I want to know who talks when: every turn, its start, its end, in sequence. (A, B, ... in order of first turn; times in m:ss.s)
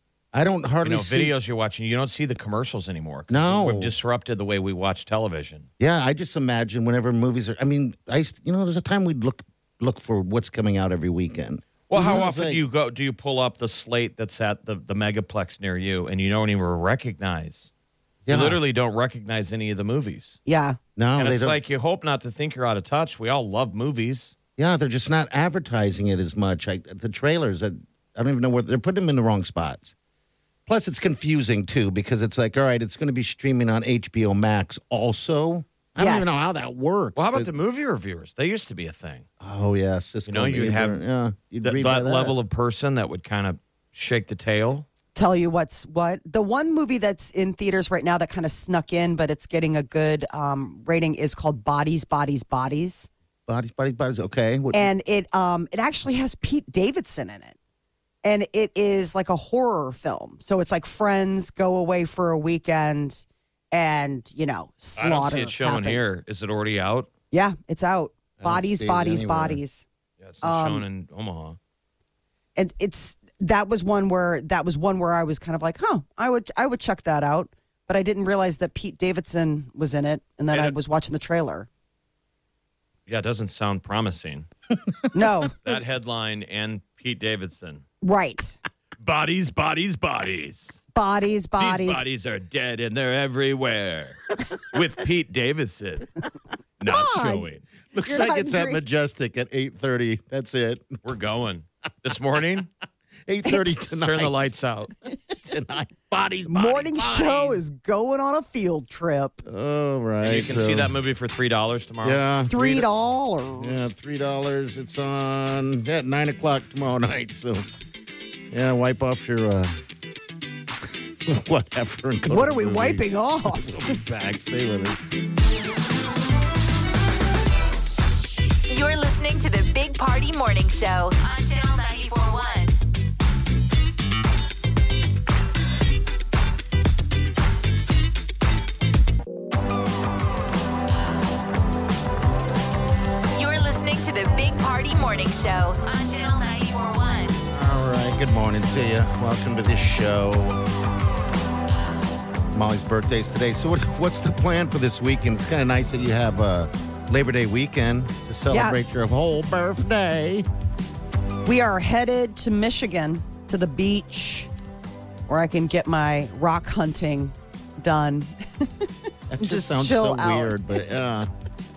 0:00.3-0:01.3 A
0:00.8-0:05.7 B
0:03.3-0:03.9 A
0:05.8-0:12.6 A
0:11.9-0:17.7 B
0:18.2-0:18.6 A
0:18.3-0:20.4 B
0:20.4-0:20.8 C
0:21.0-0:21.6 A
0:21.2-0:24.3 B
0:24.6-0:29.9 A
0:30.7-0:37.5 A
0:36.0-0:36.4 C
0:37.2-0:39.2 B
0:39.4-0:42.3 A
0:40.3-0:41.0 B
0:41.6-0:44.8 B
0:45.1-0:53.1 C
0:53.5-0:54.9 A
0:54.7-0:57.5 C
0:58.2-1:06.1 C
1:05.0-1:07.1 B
1:07.3-1:09.8 C
1:08.4-1:09.6 A
1:10.2-1:11.6 B
1:10.4-1:10.8 C
1:12.6-1:21.7 C
1:23.1-1:24.5 B
1:25.1-1:25.5 C
1:25.6-1:27.8 B
1:28.0-1:28.6 C
1:29.0-1:30.8 B
1:30.9-1:32.0 C
1:31.6-1:36.2 B
1:36.8-1:37.6 B
1:36.9-1:37.5 C
1:37.9-1:41.0 A
1:38.0-1:38.8 C
1:41.0-1:42.7 B
1:43.2-1:44.5 A
1:43.9-1:44.9 B
1:45.4-1:47.6 A
1:46.5-1:49.4 C
1:49.4-1:50.9 A
1:50.2-1:52.2 B
1:52.0-1:52.9 A
1:52.5-1:53.9 C
1:53.6-1:57.6 A
1:58.5-1:59.8 A
2:01.2-2:05.0 A
2:02.3-2:04.0 C
2:08.7-2:12.8 D
2:23.3-2:27.4 D
2:27.5-2:30.6 A
2:32.5-2:40.4 A
2:38.5-2:38.8 C
2:41.4-2:44.5 C
2:45.3-2:48.9 C
2:49.3-2:51.3 A
2:49.4-2:50.6 C